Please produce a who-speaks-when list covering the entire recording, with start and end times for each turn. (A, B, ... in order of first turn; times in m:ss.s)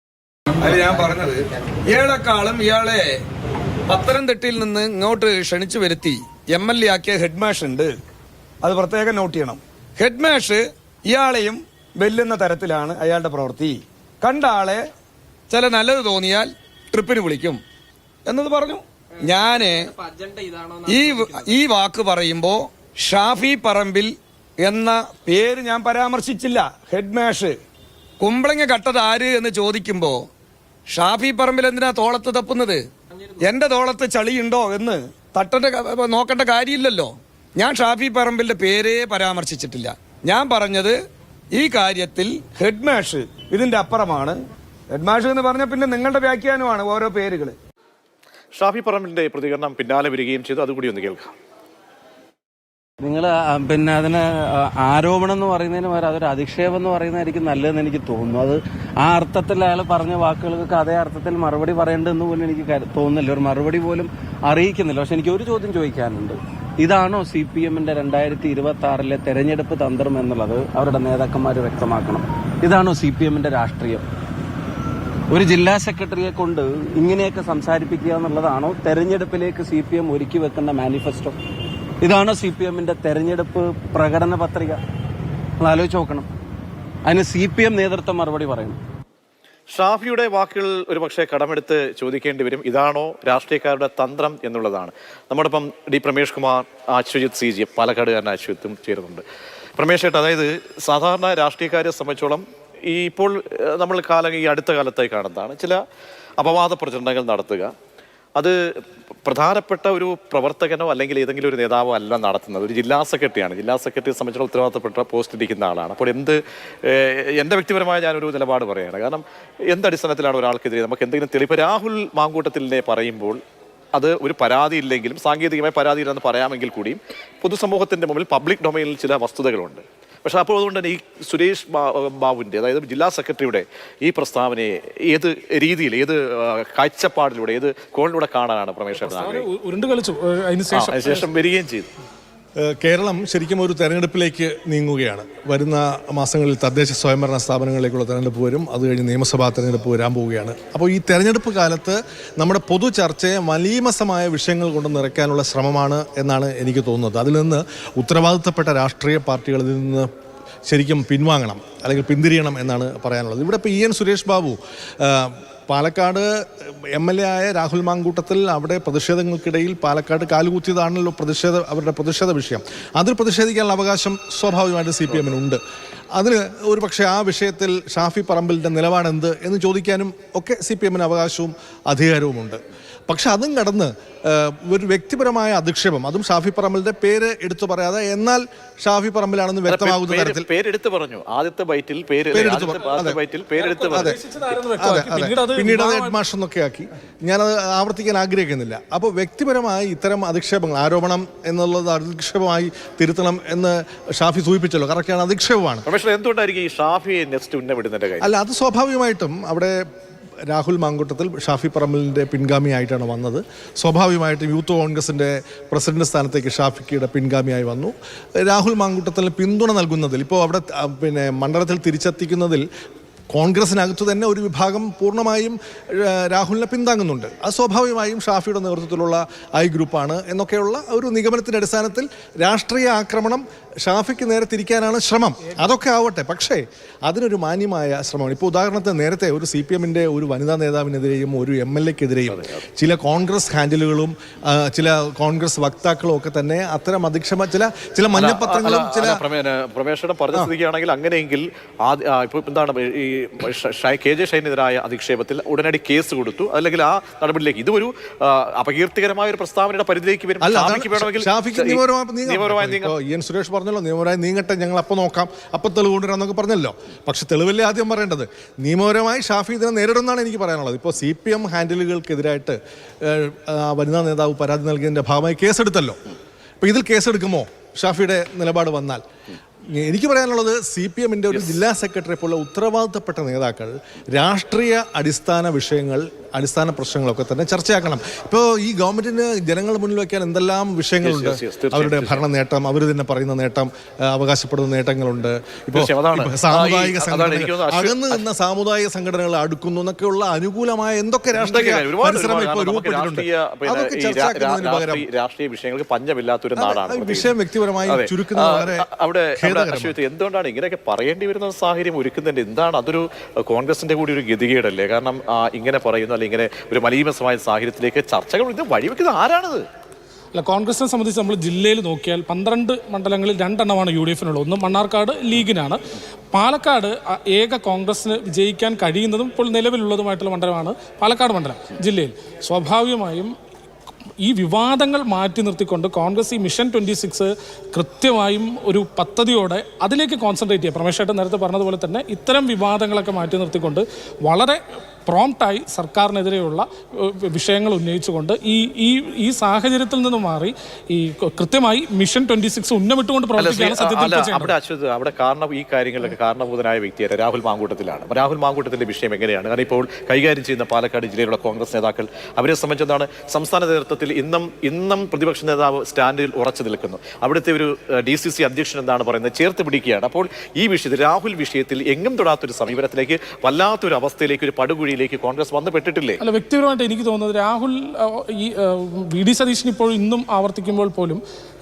0:00.6-0:03.2 A
0:03.9-0:08.0 A
0:08.6-0:14.9 A
0:15.5-0:17.6 A
0:18.3-0:20.0 A
0:20.7-0:27.6 A
0:28.2-0:30.3 A
0:30.9-0:32.9 A
0:33.4-0:41.0 A
0:41.5-0:44.4 A
0:44.9-0:47.6 A
0:48.6-0:51.3 B
0:53.0-1:14.1 C
1:15.3-1:21.4 C
1:22.0-1:24.8 C
1:25.6-1:26.3 C
1:27.0-1:28.8 C
1:29.7-1:39.2 B
1:39.8-1:45.8 B
1:46.4-1:47.7 B
1:49.2-2:03.4 B
2:03.9-2:19.4 B
2:19.0-2:21.3 D
2:20.7-2:21.9 B
2:22.6-2:40.1 E
2:40.7-2:55.6 E
2:56.1-3:10.5 E
3:09.7-3:14.2 B
3:12.3-3:13.2 E
3:13.6-3:16.2 D
3:13.9-3:14.2 E
3:14.8-3:25.9 E
3:25.9-3:28.3 B
3:28.2-3:29.8 E
3:30.5-3:42.6 E
3:43.3-4:09.2 E
4:02.3-4:02.6 B
4:08.1-4:22.9 B
4:20.4-4:36.0 E
4:36.6-4:39.0 E
4:39.7-5:05.1 E
4:41.3-4:41.6 B
4:51.0-4:52.2 B
4:55.7-4:58.2 B
5:01.3-5:07.3 B
5:06.6-5:10.0 E
5:07.9-5:19.7 B
5:20.3-5:25.8 D
5:26.3-5:33.3 D
5:34.2-5:54.5 D
5:53.4-6:16.2 B
6:16.2-6:21.2 D